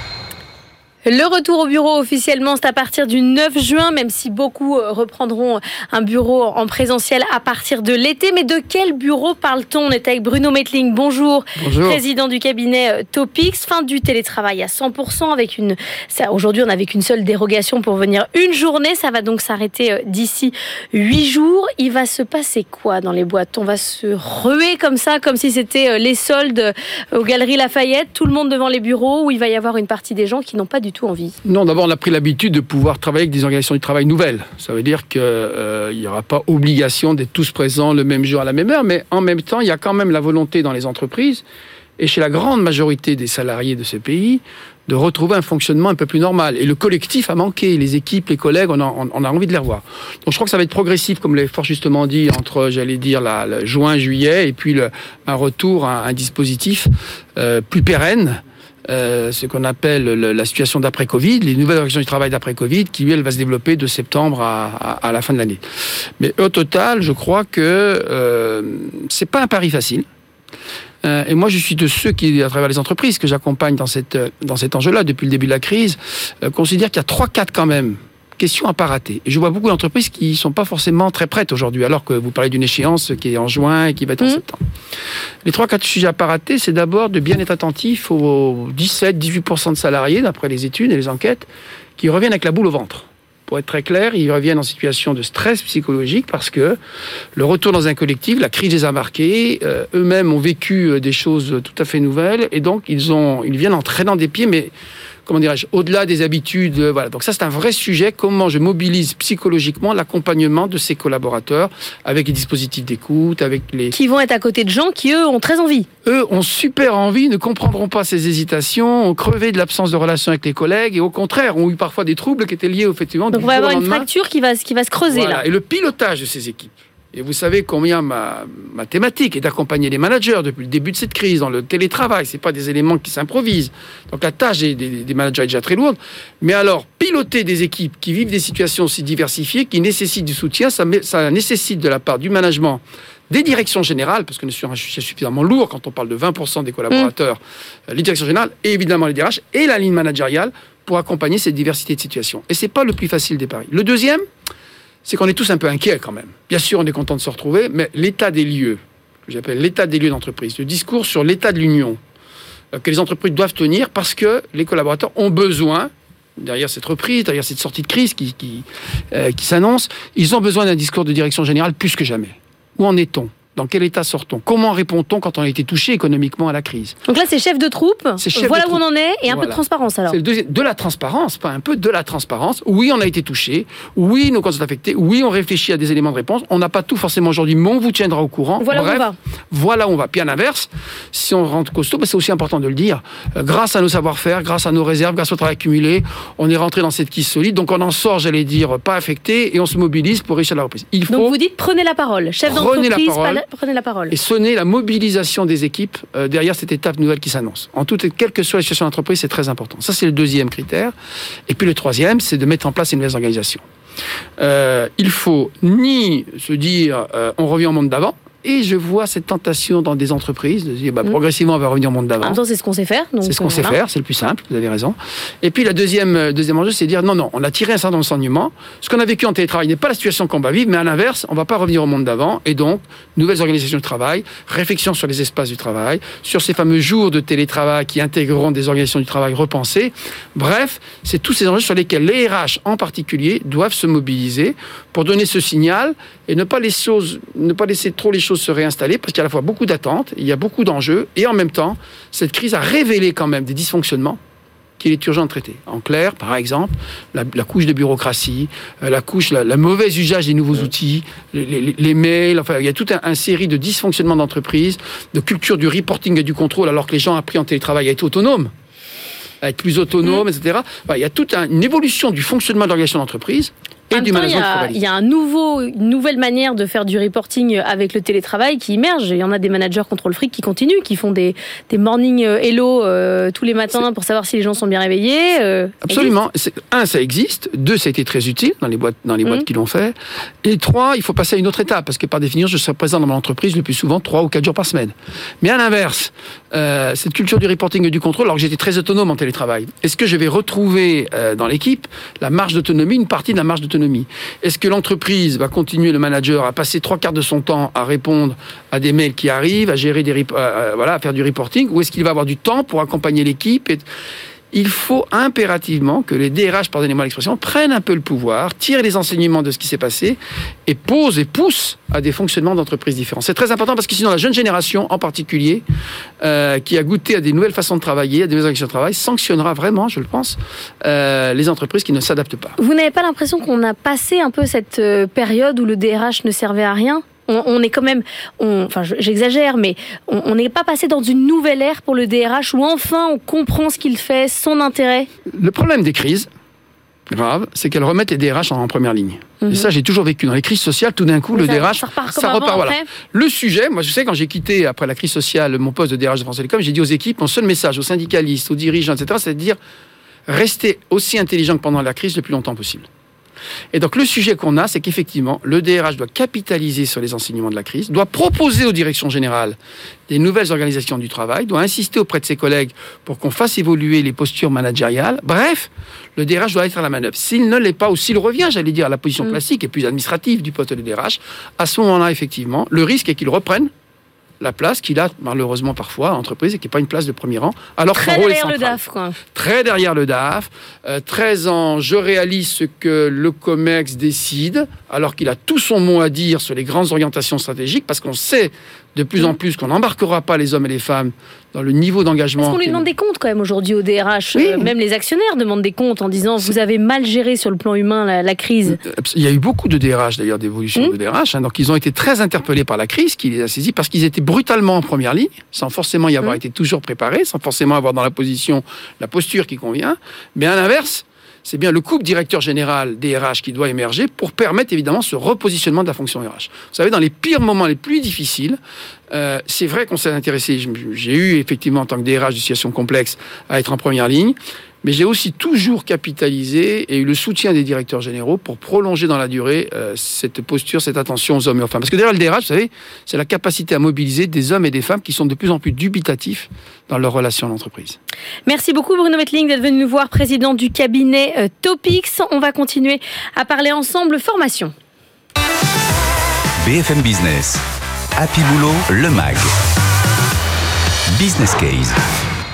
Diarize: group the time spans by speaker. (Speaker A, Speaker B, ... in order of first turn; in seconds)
Speaker A: 1.1-31.4, 113.9-115.9, 123.3-125.4, 177.1-180.2, 188.6-189.2, 201.1-204.1, 222.2-223.8, 273.9-286.1, 332.6-345.1, 349.4-349.7, 351.3-352.9, 387.9-389.2, 402.4-408.8, 448.4-454.7
Speaker B: 11.6-12.0, 31.4-41.4, 42.0-65.6, 66.2-70.0, 71.0-84.6, 85.4-96.8, 97.3-104.7, 105.2-113.9, 116.0-124.1, 125.1-154.2, 155.0-162.0, 162.7-177.0, 178.2-201.3, 202.5-203.4, 204.1-210.9, 211.5-213.6, 214.4-222.4, 223.2-254.2, 254.8-268.5, 269.4-274.8, 285.9-313.8, 314.5-325.6, 326.2-332.6, 345.3-346.3, 347.1-359.6, 360.3-362.9, 363.7-369.6, 370.1-383.7, 384.4-388.8, 389.3-402.9, 404.3-404.7, 408.7-428.6, 429.1-448.0
Speaker C: 456.6-457.6, 458.1-459.5, 461.1-462.0